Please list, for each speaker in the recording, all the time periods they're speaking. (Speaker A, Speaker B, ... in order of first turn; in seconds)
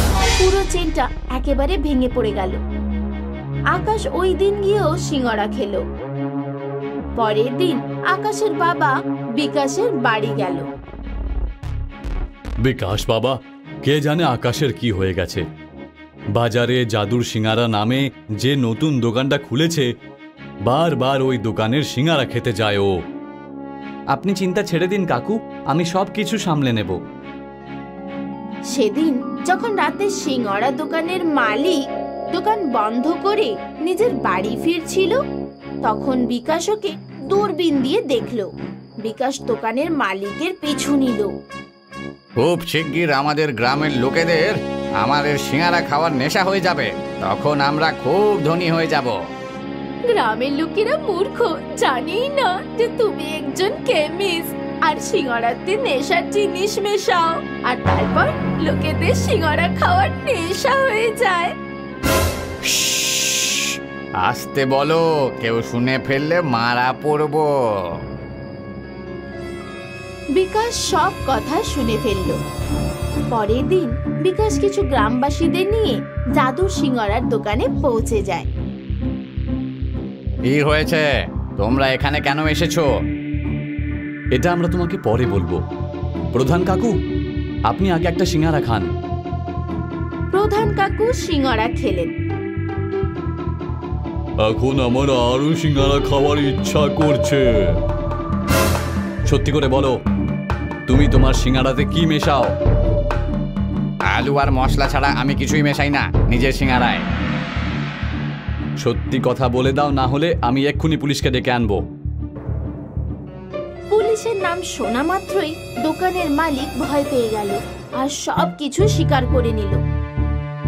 Speaker A: 0.4-2.6, 3.7-5.8, 7.2-10.7, 28.7-31.8, 32.3-35.2, 35.8-38.5, 39.0-41.3, 50.1-61.5, 70.3-72.4, 73.3-78.5, 90.3-92.1, 113.9-119.8
Speaker B: 12.6-15.4, 16.4-19.9, 20.7-22.9, 24.1-27.0, 84.3-85.6, 86.3-86.9, 87.7-88.9, 94.4-97.8, 99.3-99.9, 100.9-102.5, 108.8-111.8
Speaker C: 42.4-49.2, 63.4-68.0, 80.5-81.1, 81.6-82.9, 104.1-107.0